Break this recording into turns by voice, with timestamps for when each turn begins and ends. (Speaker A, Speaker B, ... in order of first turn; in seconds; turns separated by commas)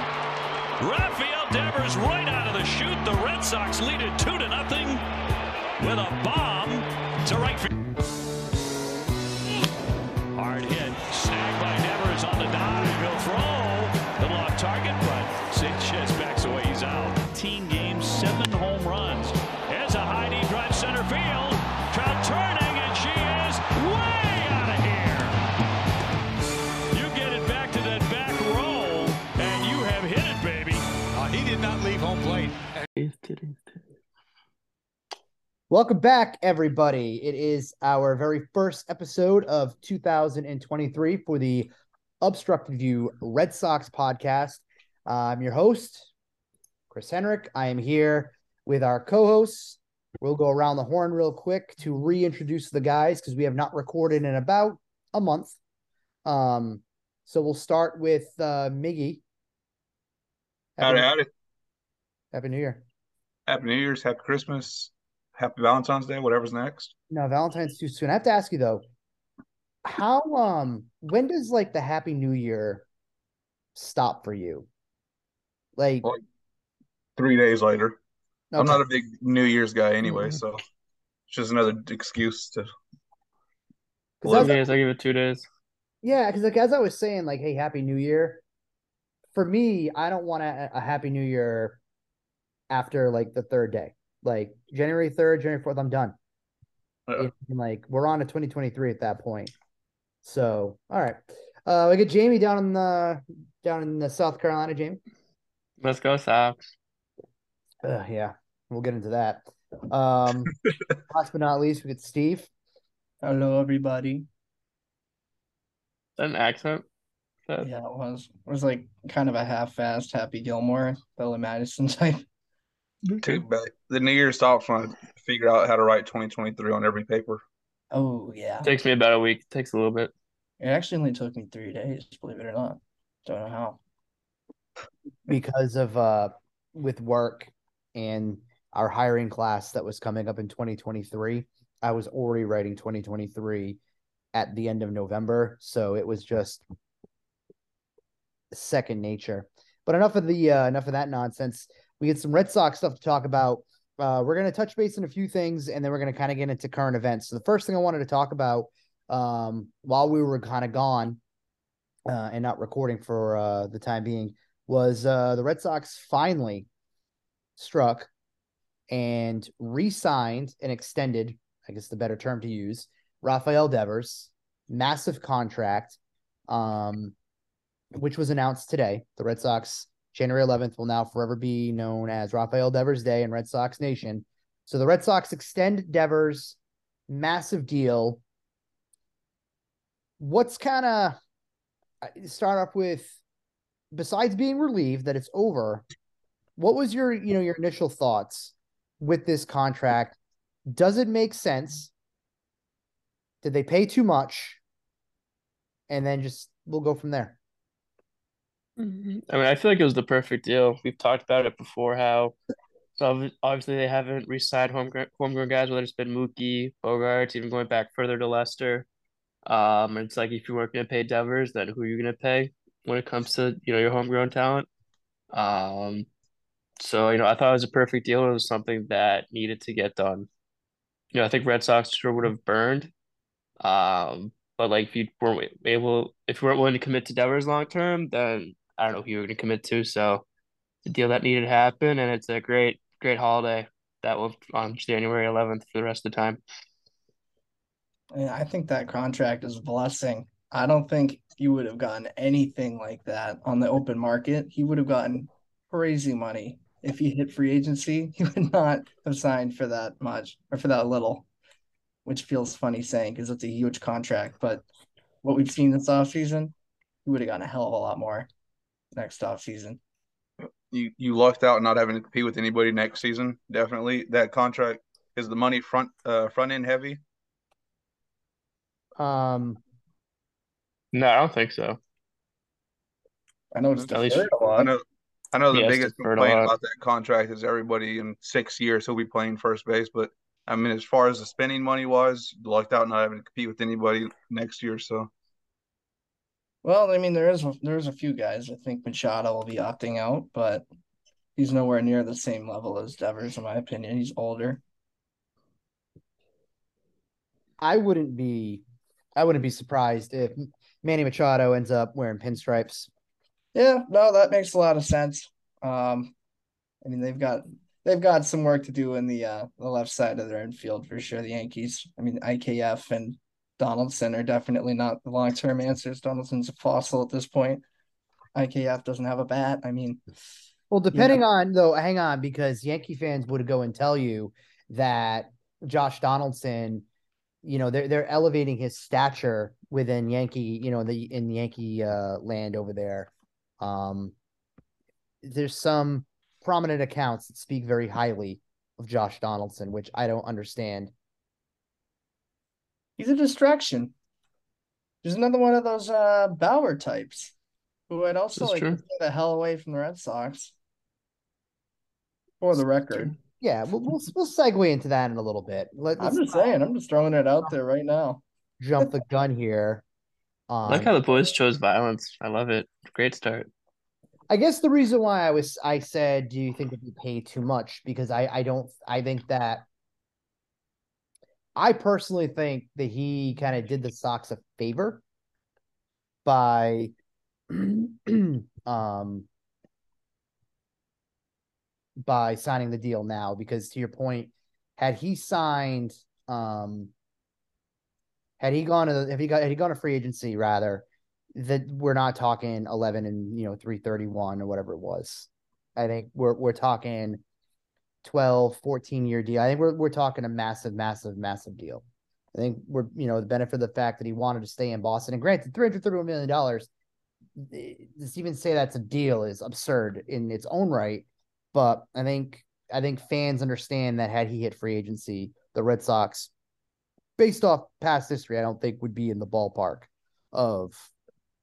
Speaker A: 0.8-5.0, Speaker A: 5.8-7.7, Speaker A: 10.3-25.4, Speaker A: 26.9-32.7, Speaker B: 33.0-33.8, Speaker C: 35.7-46.1, Speaker C: 46.9-55.6, Speaker C: 56.2-59.2, Speaker C: 60.8-61.1, Speaker D: 60.8-61.3, Speaker C: 62.3-62.8, Speaker D: 63.5-66.9, Speaker C: 67.1-68.8, Speaker C: 69.8-72.9, Speaker C: 73.8-74.7, Speaker C: 75.8-76.1, Speaker D: 77.2-78.0, Speaker C: 78.5-78.8, Speaker D: 78.6-80.6, Speaker B: 80.1-80.4, Speaker D: 81.3-82.7, Speaker C: 84.2-84.6, Speaker D: 84.2-84.6, Speaker B: 84.3-85.4, Speaker C: 86.0-88.4, Speaker C: 89.3-91.8, Speaker C: 92.7-96.2, Speaker C: 97.2-99.5, Speaker C: 100.2-105.0, Speaker B: 105.8-106.6, Speaker C: 107.8-110.5, Speaker C: 111.1-112.5, Speaker E: 113.2-114.3, Speaker B: 116.2-116.8, Speaker E: 117.6-122.2, Speaker D: 123.2-127.4, Speaker E: 127.9-128.7, Speaker B: 128.6-130.1, Speaker E: 130.6-133.8, Speaker C: 135.3-143.8, Speaker C: 144.3-146.6, Speaker C: 148.5-161.2, Speaker C: 162.1-166.7, Speaker C: 167.6-168.1, Speaker C: 168.9-177.1, Speaker C: 177.9-186.6, Speaker C: 187.1-188.2, Speaker C: 190.2-191.2, Speaker C: 192.0-193.2, Speaker C: 193.9-195.8, Speaker C: 196.6-200.2, Speaker C: 200.7-201.9, Speaker C: 203.4-204.6, Speaker C: 205.9-207.4, Speaker B: 208.8-212.3, Speaker B: 213.0-218.9, Speaker B: 219.5-224.7, Speaker B: 225.3-226.1, Speaker B: 226.8-230.3, Speaker B: 231.1-232.9, Speaker B: 233.6-240.2, Speaker B: 240.8-246.4, Speaker E: 248.1-261.3, Speaker E: 262.1-264.7, Speaker E: 265.2-266.5, Speaker E: 267.1-268.3, Speaker E: 269.0-269.8, Speaker D: 270.7-277.0, Speaker C: 279.0-279.6, Speaker B: 280.9-281.8, Speaker E: 283.5-284.7, Speaker B: 283.9-284.4, Speaker D: 284.5-295.1, Speaker B: 285.5-286.5, Speaker E: 296.6-300.6, Speaker E: 301.4-304.6, Speaker C: 307.6-308.6, Speaker C: 309.2-312.9, Speaker E: 313.5-316.1, Speaker E: 316.8-327.6, Speaker E: 328.4-330.0, Speaker C: 330.7-336.9, Speaker E: 330.9-331.2, Speaker C: 337.4-344.1, Speaker C: 345.2-350.9, Speaker E: 353.0-353.9, Speaker E: 355.0-357.3, Speaker E: 357.9-360.6, Speaker B: 358.4-358.8, Speaker E: 362.4-363.1, Speaker C: 363.4-366.5, Speaker E: 366.0-368.2, Speaker C: 368.6-369.8, Speaker C: 370.5-370.9, Speaker B: 370.7-373.5, Speaker C: 374.3-379.7, Speaker C: 381.6-385.0, Speaker C: 386.2-386.9, Speaker C: 387.5-389.3, Speaker C: 392.0-396.9, Speaker C: 398.4-400.9, Speaker C: 401.4-407.2, Speaker C: 408.0-416.7, Speaker C: 417.4-426.3, Speaker C: 427.2-430.9